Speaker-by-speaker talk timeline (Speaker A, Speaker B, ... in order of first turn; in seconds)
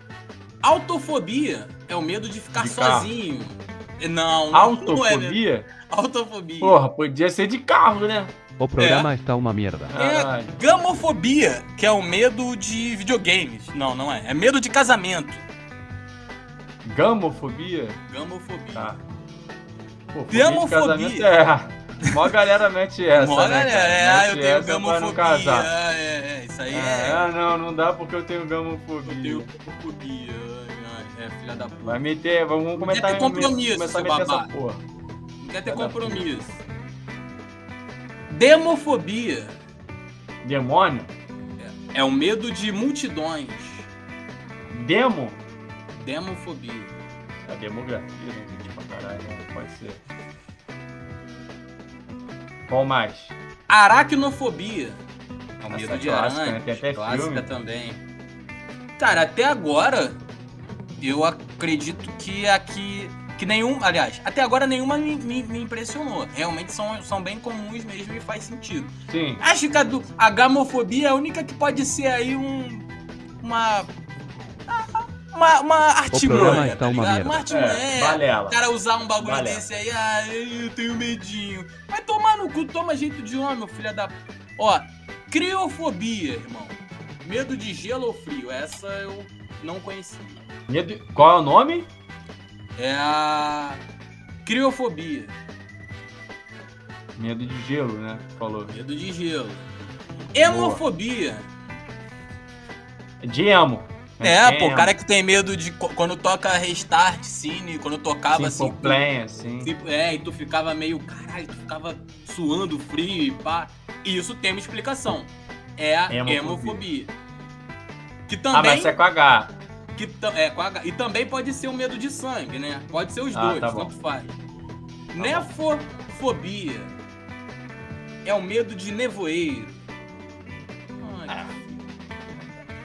Speaker A: 0.6-6.8, 8.8-9.1, 9.9-15.4, 18.1-19.0, 20.3-21.3, 23.1-27.3, 29.0-32.0, 32.8-34.5, 35.4-36.6, 38.3-39.6, 41.6-43.9, 45.9-47.0, 53.7-55.0, 55.6-58.0, 59.0-60.2, 61.0-72.8, 73.4-73.9, 74.7-90.4, 92.8-93.8, 94.4-95.3, 98.7-99.7, 100.3-101.5, 104.2-109.0, 109.6-117.1, 118.3-119.0, 119.9-124.3, 125.1-126.9, 128.2-129.8, 131.0-131.8
Speaker B: 2.5-3.1, 4.5-5.7, 6.6-8.3, 9.9-10.6, 16.8-18.0, 18.7-19.0, 20.1-25.7, 26.7-29.5, 31.8-34.8, 35.6-36.4, 40.4-41.1, 44.7-45.4, 47.5-50.0, 52.7-53.4, 55.7-57.5, 69.1-69.4, 76.3-76.7, 77.5-78.6, 79.2-79.6, 90.7-91.9, 97.2-98.7, 100.4-100.8, 103.2-104.9, 108.3-109.7, 116.1-116.8, 118.5-119.5, 123.3-123.9, 125.2-125.5, 131.3-131.5
Speaker C: 8.6-9.9, 76.1-77.5